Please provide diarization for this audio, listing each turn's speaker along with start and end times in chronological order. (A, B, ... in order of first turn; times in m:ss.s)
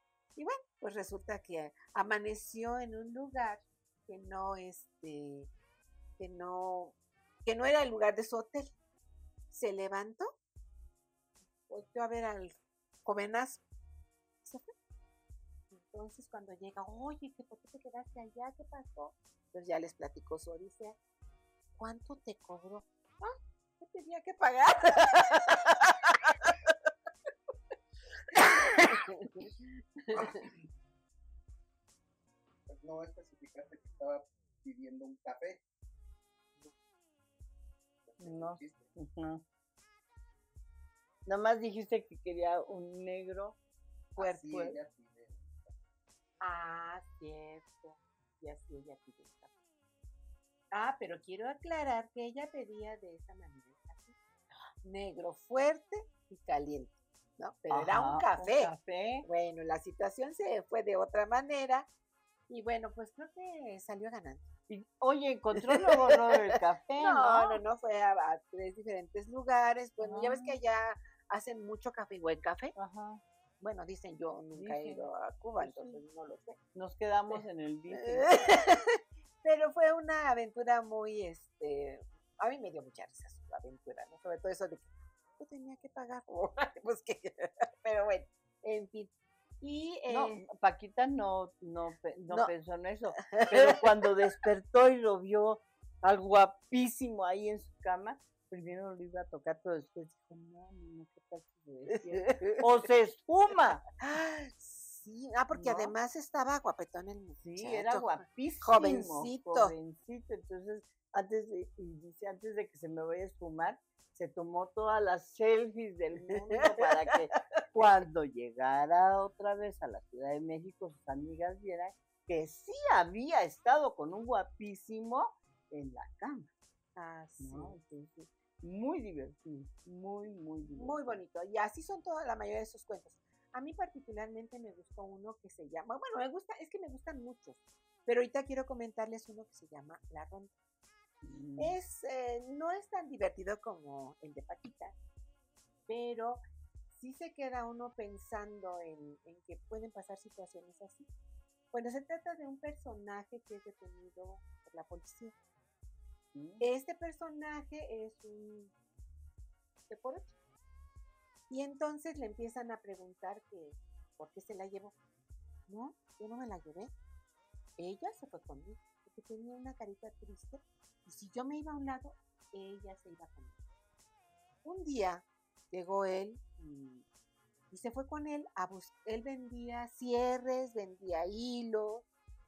0:00.4-0:05.5 A
0:06.2-0:08.7 A
0:09.5-0:10.3 A
0:11.7-0:13.6 A
0:14.4-0:14.7 A
0:15.7-0:21.0 A
0:21.8-0:26.5 A
0:28.3-0:30.5 A
0:30.2-0:30.5 B
0:32.7-0:35.6 B
0:38.0-0:39.0 B
0:38.2-0:39.4 C
0:41.2-0:43.6 C
0:44.2-0:45.8 B
0:44.2-0:44.8 A
0:46.4-0:49.5 A
0:50.7-0:54.2 A
0:54.8-0:58.7 A
0:57.7-0:59.3 C
0:59.2-1:01.9 A
1:02.5-1:04.5 A
1:04.7-1:07.6 C
1:05.7-1:06.2 A
1:07.0-1:12.7 A
1:10.0-1:10.6 C
1:12.8-1:13.2 C
1:13.6-1:16.6 A
1:14.5-1:15.1 C
1:15.6-1:16.0 C
1:16.7-1:18.4 C
1:18.0-1:30.4 A
1:30.1-1:43.8 C
1:33.2-1:33.8 A
1:42.2-1:42.6 A
1:44.0-1:49.7 A
1:45.5-1:45.9 C
1:47.4-2:06.5 C
1:56.2-1:57.8 A
2:07.0-2:07.8 A
2:07.4-2:11.2 C
2:10.8-2:20.5 A
2:21.2-2:21.8 C
2:21.6-2:24.9 A
2:25.9-2:31.1 A
2:31.7-2:35.3 A
2:36.3-2:36.6 C
2:36.6-2:38.7 A
2:39.9-2:40.4 A
2:41.5-2:45.0 A
2:45.7-2:46.9 A
2:47.8-2:53.6 A
2:54.6-2:57.0 A
2:57.7-3:02.0 A